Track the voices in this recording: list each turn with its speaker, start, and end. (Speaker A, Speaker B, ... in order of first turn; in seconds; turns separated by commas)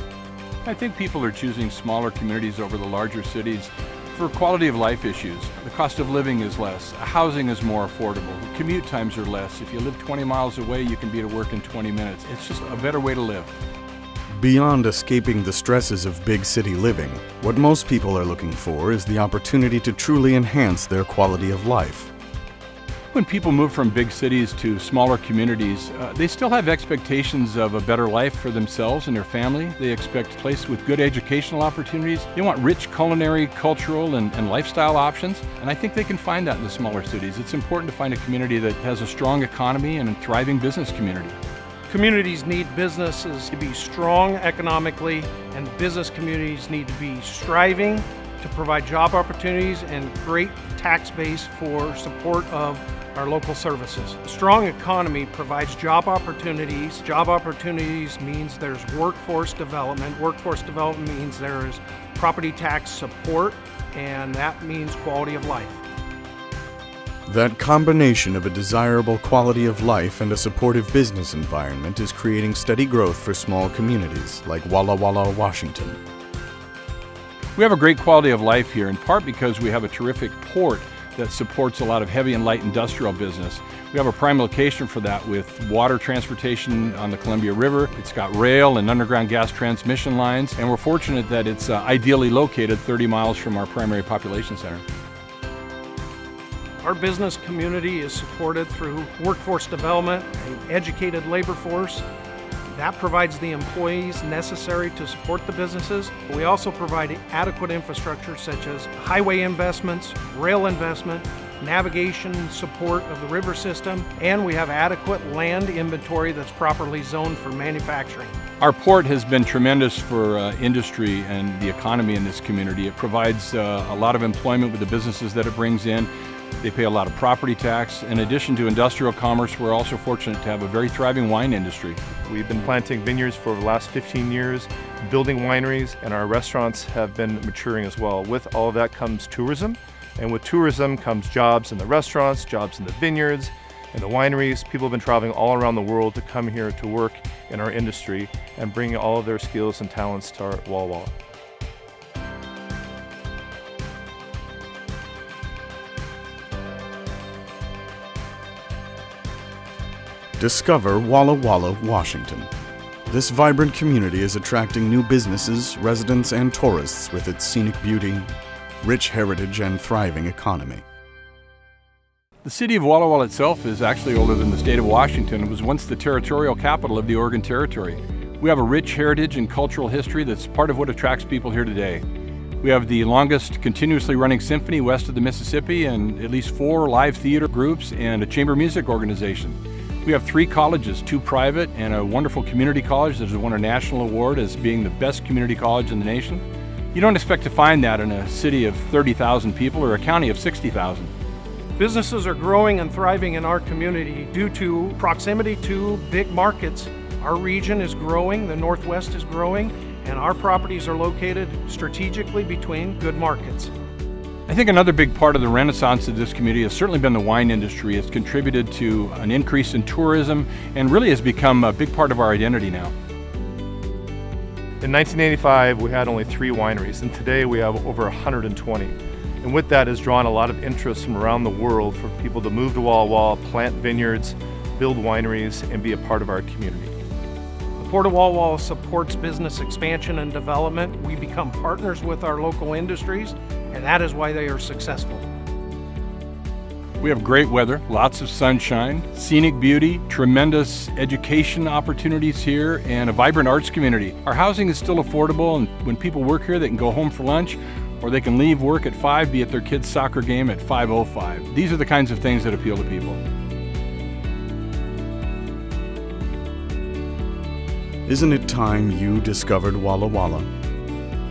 Speaker A: 0.6-13.5, Speaker B: 14.3-22.1, Speaker A: 23.1-41.4, Speaker C: 41.9-65.8, Speaker B: 67.3-76.0, Speaker A: 77.5-94.8, Speaker C: 96.8-102.0, Speaker C: 102.7-118.4, Speaker A: 118.6-126.1, Speaker A: 126.6-132.0, Speaker D: 132.2-151.1, Speaker B: 160.4-162.5, Speaker B: 163.1-168.3, Speaker B: 168.8-170.8, Speaker A: 172.4-182.0, Speaker A: 182.6-196.4, Speaker A: 196.9-201.1, Speaker C: 201.8-213.7, Speaker A: 214.5-222.9, Speaker D: 224.8-236.9, Speaker C: 237.8-245.2, Speaker A: 247.0-263.2, Speaker B: 268.0-270.5